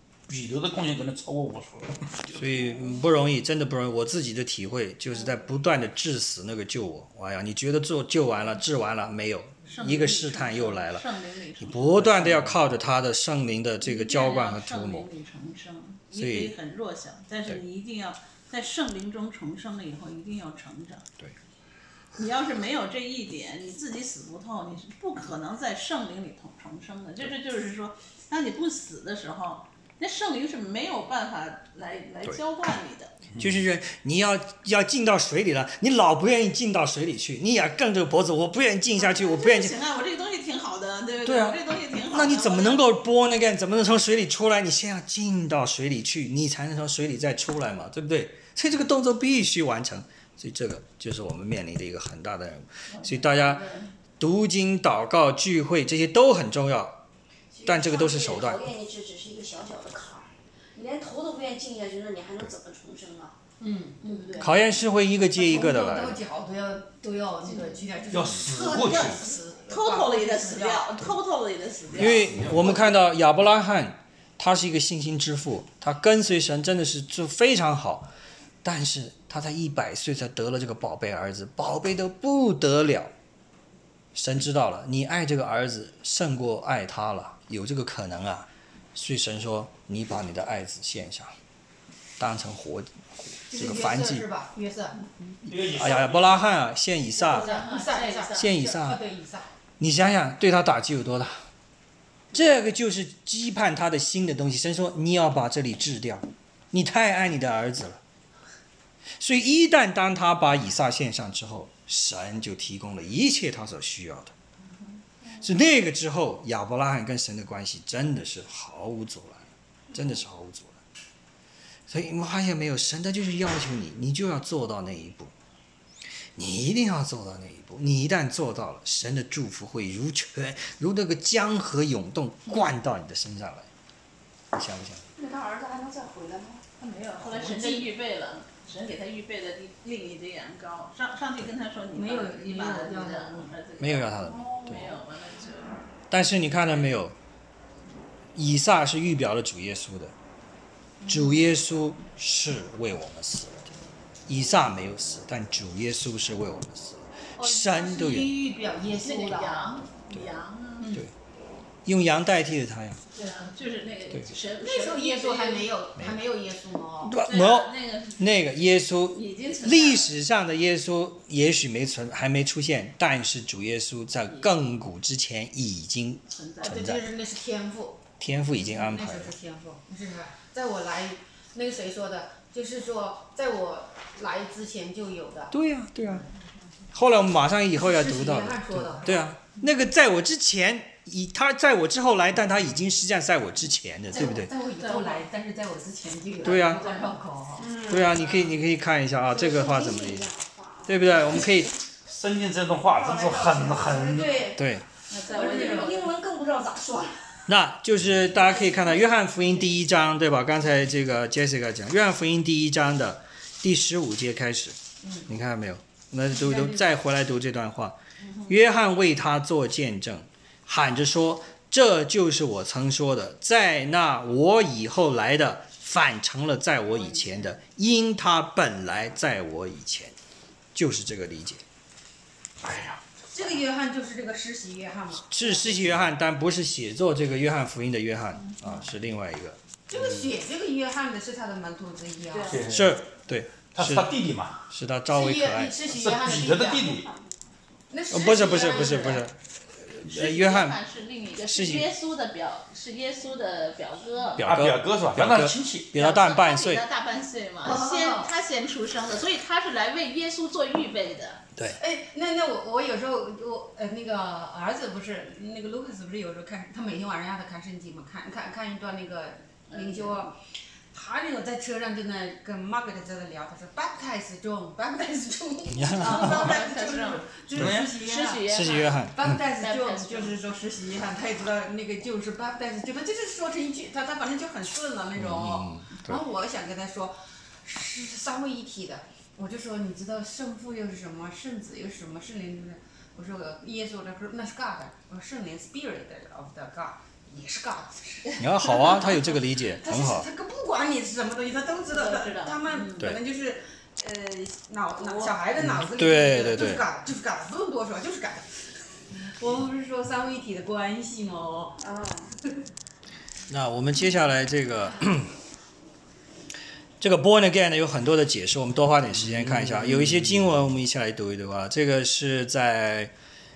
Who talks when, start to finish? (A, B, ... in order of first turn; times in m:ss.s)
0:00.3-0:02.7 A
0:02.3-0:11.0 B
0:09.7-0:12.0 C
0:11.6-0:15.1 B
0:12.0-0:12.6 A
0:13.8-0:21.0 C
0:16.1-0:16.5 B
0:22.2-0:33.2 C
0:33.4-0:39.7 B
0:38.9-0:42.8 C
0:41.2-0:53.6 B
0:52.9-0:53.9 C
0:54.2-0:57.0 B
0:57.5-1:03.4 D
0:57.6-0:58.6 B
1:03.6-1:04.0 E
1:04.0-1:04.5 C
1:04.0-1:04.5 D
1:04.4-1:06.2 B
1:05.3-1:11.1 E
1:08.1-1:09.3 A
1:08.5-1:12.8 C
1:11.9-1:18.1 B
1:12.0-1:12.9 A
1:18.6-1:23.1 B
1:24.1-1:31.3 B
1:32.2-1:34.2 B
1:33.5-1:35.1 E
1:35.5-1:36.5 A
1:35.7-1:37.5 B
1:37.2-1:38.5 C
1:37.2-1:39.5 E
1:38.3-1:39.0 B
1:39.8-1:41.4 B
1:42.3-1:48.0 B
1:49.2-1:54.3 B
1:55.4-2:00.8 B
2:01.9-2:05.3 B
2:06.4-2:13.7 B
2:14.5-2:15.0 B
2:15.2-2:16.6 D
2:16.8-2:25.8 C
2:17.3-2:17.8 E
2:21.9-2:23.5 E
2:23.8-2:24.8 B
2:24.2-2:24.9 D
2:26.1-2:27.2 B
2:28.3-2:30.1 B
2:31.0-2:31.4 C
2:31.0-2:33.7 B
2:34.3-2:38.4 B
2:37.4-2:39.8 E
2:39.0-2:41.0 C
2:40.8-2:41.0 E
2:41.8-2:43.0 B
2:43.1-2:45.7 C
2:43.2-2:43.5 E
2:44.6-2:47.2 E
2:47.0-2:57.0 B
2:47.2-2:48.3 C
2:49.1-2:50.1 C
2:56.3-2:56.8 C
2:56.6-2:58.0 E
2:58.2-2:59.3 B
2:58.6-3:05.5 E
3:05.5-3:06.2 B
3:06.9-3:14.5 B
3:07.7-3:09.3 E
3:14.1-3:18.2 E
3:14.8-3:15.2 C
3:16.4-3:16.8 B
3:17.6-3:18.4 D
3:17.9-3:20.3 B
3:19.3-3:21.7 D
3:20.8-3:21.7 B
3:22.0-3:24.6 A
3:22.8-3:24.7 D
3:23.9-3:24.2 E
3:24.5-3:24.8 B
3:25.1-3:26.1 C
3:25.2-3:26.1 E
3:25.3-3:27.4 D
3:27.5-3:50.1 B
3:28.3-3:29.1 D
3:35.0-3:35.3 E
3:36.3-3:36.9 E
3:38.2-3:38.5 C
3:47.0-3:47.5 C
3:50.7-3:51.6 B
3:52.6-3:53.0 A
3:53.3-3:55.9 E
3:55.3-3:59.6 B
3:59.9-4:02.6 E
3:59.9-4:00.3 A
4:02.3-4:02.6 C
4:02.4-4:03.0 A
4:02.7-4:05.8 B
4:03.7-4:04.7 A
4:05.1-4:06.8 E
4:05.8-4:07.1 A
4:06.6-4:07.5 D
4:07.9-4:09.3 E
4:08.1-4:10.8 B
4:10.0-4:14.4 C
4:11.4-4:11.9 B
4:14.4-4:16.8 B
4:14.4-4:15.9 A
4:15.9-4:21.4 C
4:17.6-4:18.3 E
4:21.6-4:30.4 E
4:29.7-4:30.3 C
4:30.9-5:11.8 E
4:35.7-4:36.6 B
4:36.0-4:40.3 C
4:37.5-4:37.9 A
4:38.4-4:39.4 B
4:45.2-4:46.2 B
4:58.4-5:00.3 B
4:58.6-4:59.3 C
5:01.9-5:03.1 C
5:05.0-5:05.4 C
5:05.6-5:06.8 B
5:11.8-5:12.3 D
5:13.5-5:15.3 B
5:17.0-5:23.1 B
5:19.1-5:20.5 A